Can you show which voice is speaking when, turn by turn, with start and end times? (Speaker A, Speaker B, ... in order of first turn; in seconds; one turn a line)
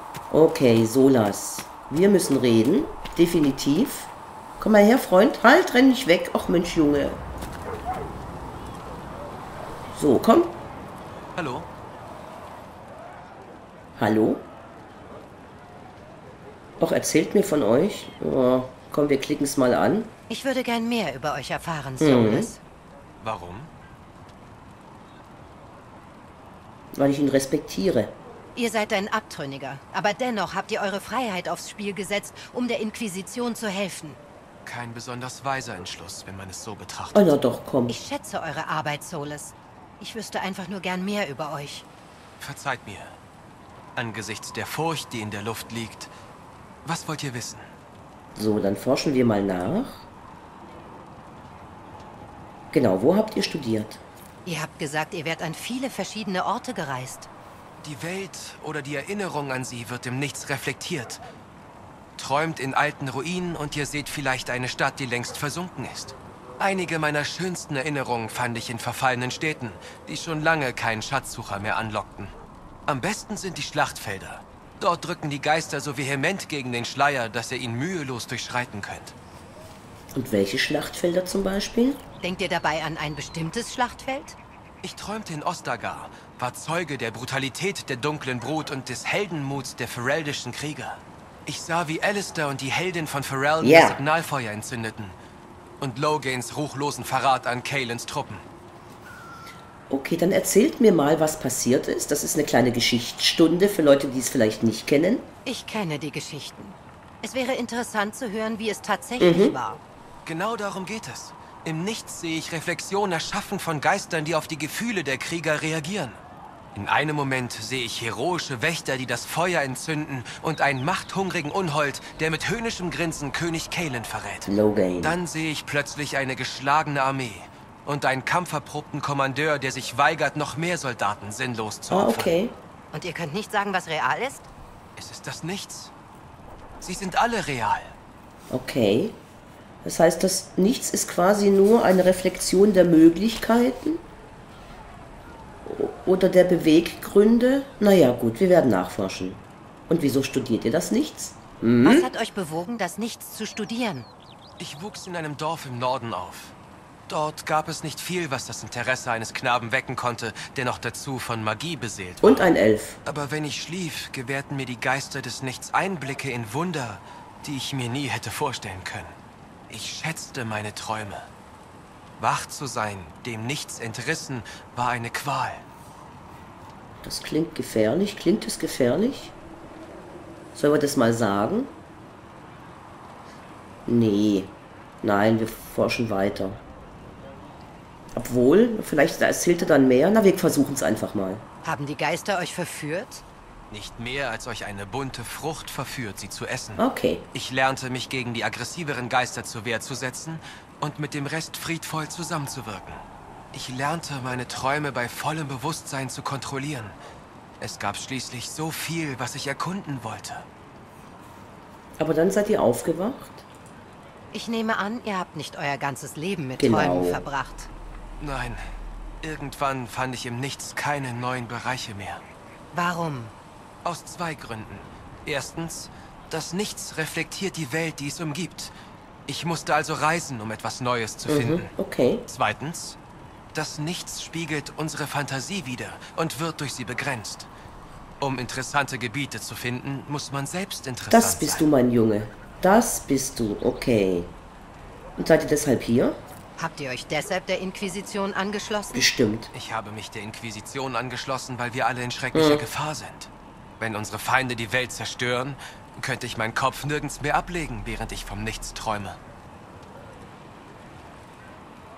Speaker A: 0.3-7.2
Speaker A: 9.9-10.6
Speaker B: 11.3-11.7
Speaker A: 14.0-14.4
Speaker A: 16.8-20.1
Speaker C: 20.3-22.6
Speaker A: 22.0-22.5
Speaker B: 23.2-23.7
Speaker A: 26.9-28.1
Speaker C: 28.5-34.2
Speaker B: 34.6-37.4
Speaker A: 37.1-38.0
Speaker C: 37.9-41.9
Speaker B: 42.4-43.1
Speaker B: 44.0-46.1
Speaker B: 46.8-47.7
Speaker A: 48.3-50.1
Speaker A: 52.7-54.0
Speaker C: 54.4-57.3
Speaker B: 57.8-61.2
Speaker B: 62.2-72.3
Speaker B: 72.9-79.1
Speaker A: 80.1-82.0
Speaker C: 82.2-84.4
Speaker B: 84.8-95.2
Speaker A: 93.6-94.0
Speaker B: 95.8-98.4
Speaker A: 99.9-105.3
Speaker C: 105.4-109.8
Speaker A: 109.2-109.5
Speaker B: 110.2-116.2
Speaker B: 116.7-124.5
Speaker A: 124.5-125.2
Speaker B: 125.0-132.4
Speaker A: 131.9-132.5
Speaker C: 132.9-134.5
Speaker B: 135.0-135.9
Speaker B: 136.8-137.9
Speaker A: 138.5-139.2
Speaker A: 139.8-144.0
Speaker A: 145.6-152.1
Speaker C: 151.8-154.1
Speaker B: 154.6-156.5
Speaker B: 157.1-162.5
Speaker A: 162.2-163.0
Speaker B: 163.0-169.2
Speaker B: 169.7-171.3
Speaker B: 172.2-175.6
Speaker A: 177.0-179.3
Speaker A: 180.6-181.7
Speaker A: 183.8-186.6
Speaker A: 188.1-191.4
Speaker C: 191.6-193.2
Speaker B: 193.7-196.8
Speaker A: 196.8-197.2
Speaker B: 197.3-203.0
Speaker B: 203.5-206.9
Speaker B: 207.6-210.5
Speaker A: 212.0-213.4
Speaker C: 214.3-217.7
Speaker A: 216.6-217.2
Speaker B: 218.2-218.6
Speaker B: 219.2-222.2
Speaker C: 222.7-223.3
Speaker B: 223.8-228.7
Speaker B: 229.3-231.7
Speaker A: 231.3-232.2
Speaker B: 232.3-233.0
Speaker B: 233.5-237.5
Speaker B: 238.2-241.7
Speaker A: 241.1-244.3
Speaker A: 245.2-246.2
Speaker C: 246.6-249.1
Speaker A: 248.9-249.5
Speaker B: 249.5-259.2
Speaker A: 252.3-252.6